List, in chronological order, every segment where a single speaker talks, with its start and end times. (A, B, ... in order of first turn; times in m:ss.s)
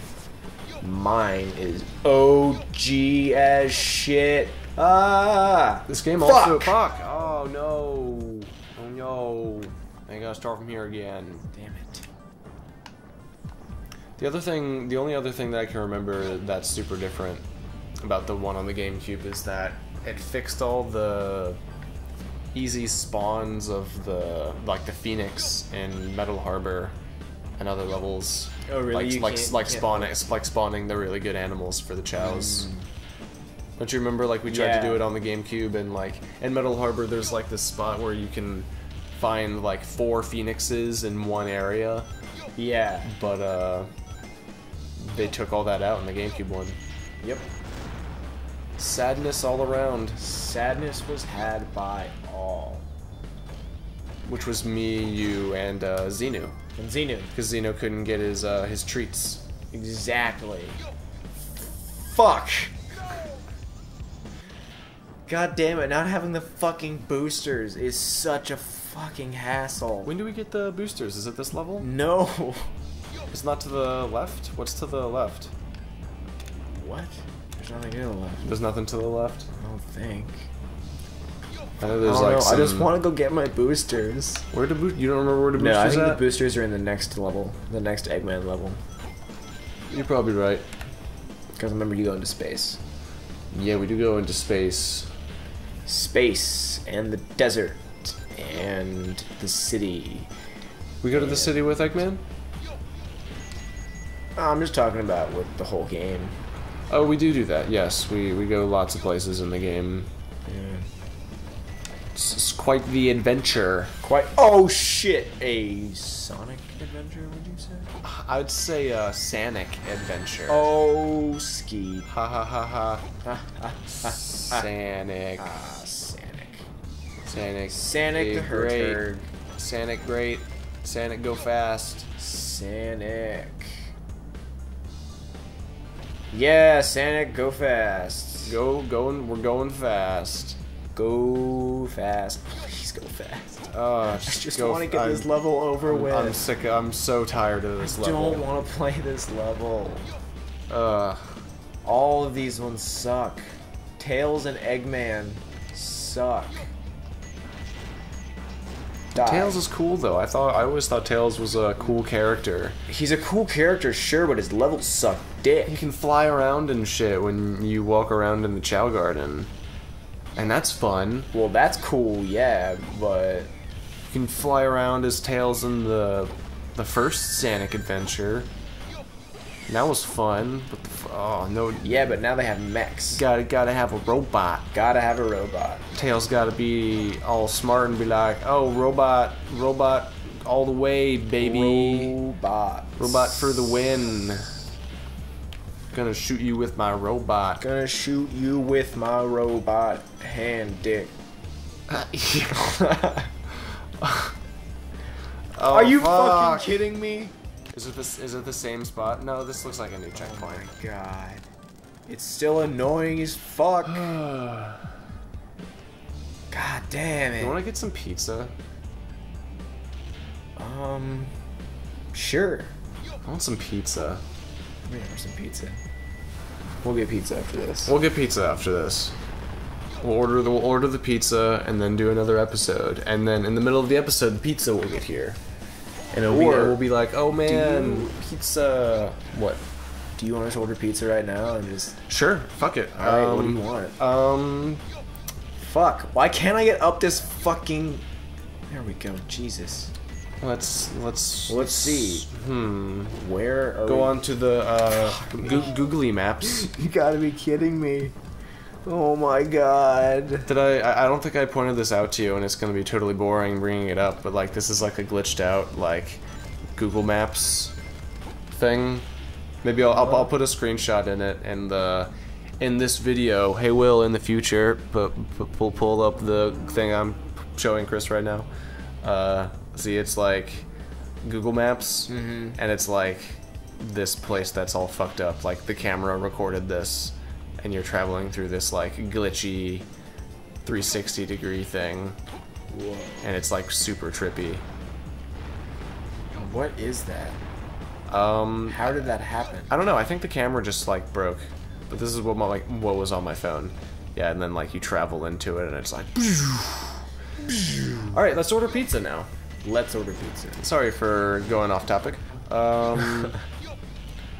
0:00.8-0:06.8 A
0:05.9-0:11.5 B
0:11.5-0:12.1 A
0:14.2-0:17.4 B
0:18.0-0:21.6 B
0:22.5-0:27.0 B
0:27.6-0:32.7 B
0:28.7-0:30.1 A
0:32.2-0:32.9 A
0:33.8-0:42.1 B
0:34.5-0:35.1 A
0:42.6-0:43.1 A
0:43.0-0:43.9 B
0:45.0-0:46.8 B
0:47.2-0:47.5 A
0:48.8-0:50.2 B
0:50.2-0:52.9 A
0:54.2-0:56.6 B
0:56.8-0:57.3 A
0:57.3-0:59.4 B
0:59.7-1:00.8 A
1:01.9-1:02.8 A
1:05.2-1:10.1 A
1:10.0-1:11.9 B
1:11.8-1:12.7 A
1:13.3-1:15.5 B
1:16.7-1:18.5 A
1:18.4-1:19.5 B
1:19.6-1:20.5 A
1:21.8-1:22.9 B
1:22.0-1:24.4 A
1:24.5-1:26.2 B
1:25.5-1:28.8 A
1:29.9-1:30.6 B
1:31.6-1:32.8 A
1:33.5-1:35.1 B
1:35.8-1:40.3 A
1:41.0-1:42.2 B
1:41.1-1:42.0 A
1:44.4-1:46.3 A
1:46.9-1:50.1 B
1:50.4-1:50.9 A
1:52.1-1:53.9 B
1:54.0-1:57.9 A
1:58.0-2:00.7 B
2:00.5-2:02.1 A
2:02.1-2:03.0 B
2:03.2-2:04.7 A
2:03.9-2:05.5 B
2:05.4-2:06.7 A
2:07.2-2:09.0 B
2:07.7-2:09.3 A
2:09.6-2:12.1 B
2:12.2-2:13.9 A
2:16.3-2:18.6 A
2:18.4-2:20.6 B
2:20.9-2:26.4 A
2:23.7-2:28.5 B
2:27.8-2:30.1 A
2:30.7-2:31.4 B
2:31.8-2:33.5 A
2:34.0-2:36.7 A
2:39.1-2:39.6 A
2:39.2-2:42.8 B
2:42.9-2:45.8 A
2:45.6-2:49.5 B
2:50.4-2:51.3 B
2:51.3-2:53.5 A
2:54.1-2:58.5 B
2:59.7-3:02.1 B
3:01.8-3:03.2 A
3:03.1-3:04.7 B
3:04.7-3:05.9 A
3:05.9-3:12.2 B
3:11.3-3:13.8 A
3:13.0-3:14.6 B
3:15.9-3:17.6 B
3:17.6-3:21.1 A
3:21.9-3:22.8 B
3:22.5-3:23.3 A
3:23.6-3:24.3 B
3:25.5-3:26.8 B
3:25.6-3:27.3 A
3:27.7-3:30.6 B
3:30.1-3:31.4 A
3:32.0-3:34.1 A
3:33.8-3:34.9 B
3:36.5-3:37.6 A
3:37.4-3:38.5 B
3:40.6-3:41.3 A
3:42.1-3:42.7 A
3:43.2-3:44.2 B
3:44.8-3:45.8 A
3:46.8-3:47.9 A
3:47.8-3:49.2 B
3:50.0-3:55.4 B
3:56.1-3:59.6 B
3:56.2-3:56.8 A
3:57.4-3:58.1 A
4:00.2-4:02.0 A
4:02.1-4:04.8 B
4:03.0-4:03.9 A
4:05.6-4:08.0 A
4:08.7-4:09.9 A
4:10.4-4:13.2 B
4:11.5-4:12.3 A
4:13.1-4:14.2 A
4:13.8-4:16.7 B
4:15.0-4:15.8 A
4:16.4-4:18.1 A
4:18.8-4:20.5 A
4:20.4-4:26.2 B
4:26.8-4:27.8 B
4:28.5-4:29.0 B
4:29.6-4:38.5 B
4:29.9-4:30.3 A
4:39.0-4:40.7 B
4:41.2-4:49.9 B
4:42.1-4:42.6 A
4:50.6-4:52.2 B
4:52.7-4:53.3 A
4:53.2-4:54.6 B
4:56.3-4:57.4 A
4:58.1-4:59.0 B
4:58.7-4:59.7 A
4:59.7-5:07.0 B
5:07.4-5:08.1 A
5:08.1-5:09.3 B
5:09.6-5:10.6 A
5:10.6-5:13.4 B